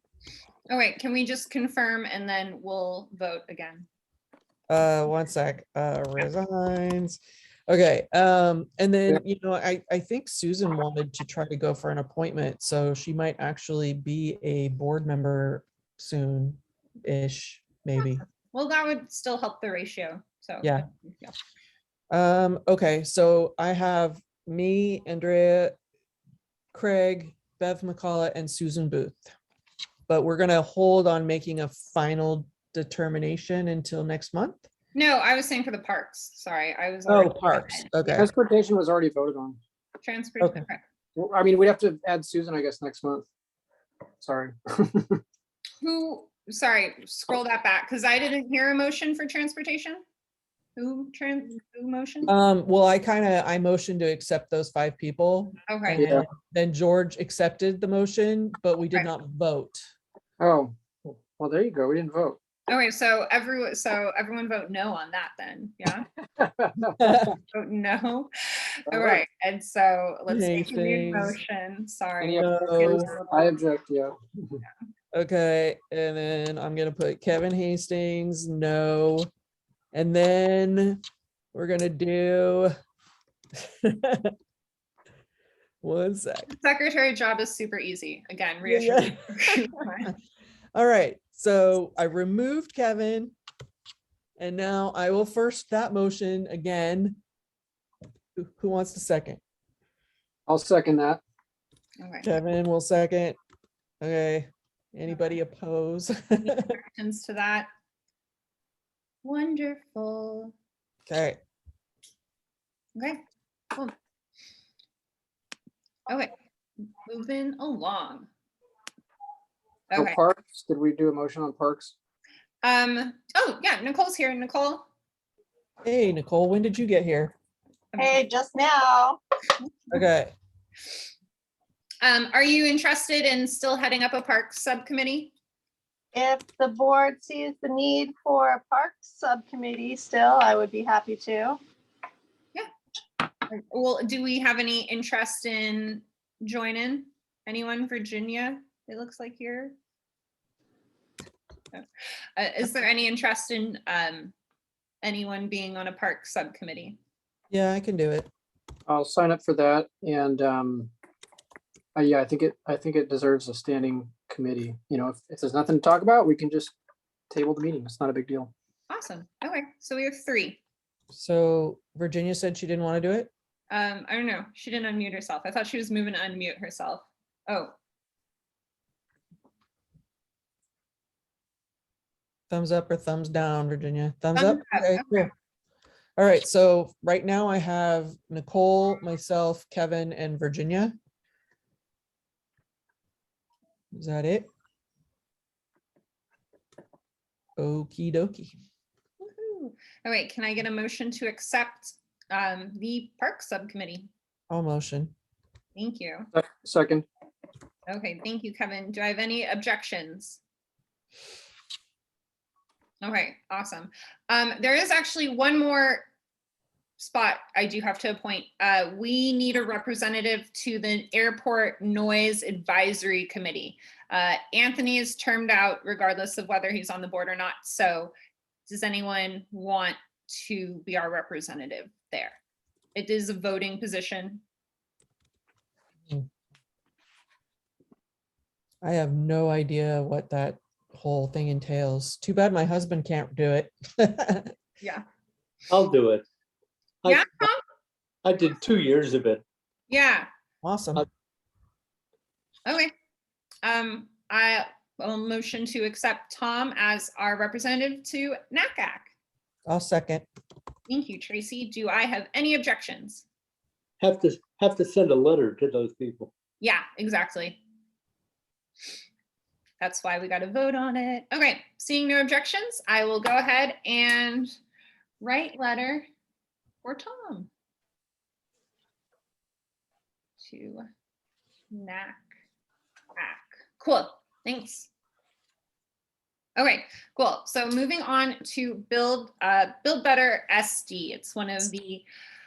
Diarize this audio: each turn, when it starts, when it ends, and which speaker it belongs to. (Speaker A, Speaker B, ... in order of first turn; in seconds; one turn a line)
Speaker A: 0.7-3.9
Speaker B: 4.7-18.2
Speaker A: 18.5-21.4
Speaker B: 22.1-25.8
Speaker B: 26.7-29.3
Speaker B: 30.1-34.7
Speaker A: 35.0-37.9
Speaker B: 37.1-38.3
Speaker C: 38.1-39.6
Speaker A: 40.0-40.8
Speaker C: 41.2-43.3
Speaker C: 44.2-45.2
Speaker A: 45.8-50.0
Speaker A: 50.8-52.3
Speaker B: 52.3-59.8
Speaker A: 55.7-56.2
Speaker C: 55.9-56.2
Speaker C: 60.4-62.4
Speaker A: 62.7-66.1
Speaker C: 66.4-67.0
Speaker B: 67.0-67.3
Speaker A: 67.5-73.5
Speaker C: 68.9-69.2
Speaker B: 70.3-71.4
Speaker C: 72.2-74.6
Speaker B: 72.4-73.1
Speaker B: 75.1-79.3
Speaker B: 79.9-81.0
Speaker B: 81.5-82.7
Speaker B: 83.6-84.3
Speaker B: 85.8-86.5
Speaker A: 86.5-90.1
Speaker B: 88.7-90.2
Speaker B: 90.7-93.3
Speaker B: 94.4-97.2
Speaker B: 98.4-99.4
Speaker C: 100.5-101.2
Speaker A: 102.0-102.3
Speaker B: 102.2-103.4
Speaker B: 104.0-106.7
Speaker A: 105.1-105.4
Speaker A: 106.5-107.7
Speaker A: 109.2-110.5
Speaker B: 111.1-111.4
Speaker A: 117.0-118.3
Speaker A: 119.9-120.2
Speaker C: 120.0-122.0
Speaker A: 122.6-124.9
Speaker B: 125.8-127.3
Speaker D: 128.0-129.2
Speaker B: 129.9-130.3
Speaker A: 132.0-135.3
Speaker D: 136.1-141.6
Speaker A: 143.5-149.8
Speaker A: 152.4-154.3
Speaker A: 155.0-157.0
Speaker B: 157.5-158.3
Speaker C: 158.9-160.9
Speaker C: 162.0-166.7
Speaker C: 167.3-168.5
Speaker A: 168.9-170.6
Speaker B: 171.1-173.3
Speaker A: 173.7-177.8
Speaker B: 182.5-185.3
Speaker A: 184.3-185.3
Speaker B: 186.2-190.9
Speaker B: 193.9-194.5
Speaker B: 197.6-198.5
Speaker A: 199.2-204.1
Speaker B: 204.5-205.1
Speaker A: 205.8-206.3
Speaker C: 206.3-207.1
Speaker A: 207.9-210.4
Speaker A: 213.0-216.1
Speaker A: 217.0-228.1
Speaker A: 228.7-232.4
Speaker A: 232.9-234.4
Speaker B: 238.8-244.5
Speaker E: 245.7-246.2
Speaker A: 247.1-247.6
Speaker E: 248.2-249.4
Speaker A: 249.9-250.3
Speaker B: 250.6-251.1
Speaker A: 253.6-259.1
Speaker B: 259.7-260.3
Speaker A: 260.9-263.2
Speaker E: 264.0-266.3
Speaker A: 266.6-267.6
Speaker A: 269.8-274.6
Speaker A: 275.2-276.1
Speaker A: 276.8-277.5
Speaker A: 280.4-280.9
Speaker A: 281.7-282.2
Speaker A: 283.2-284.9
Speaker A: 286.6-292.1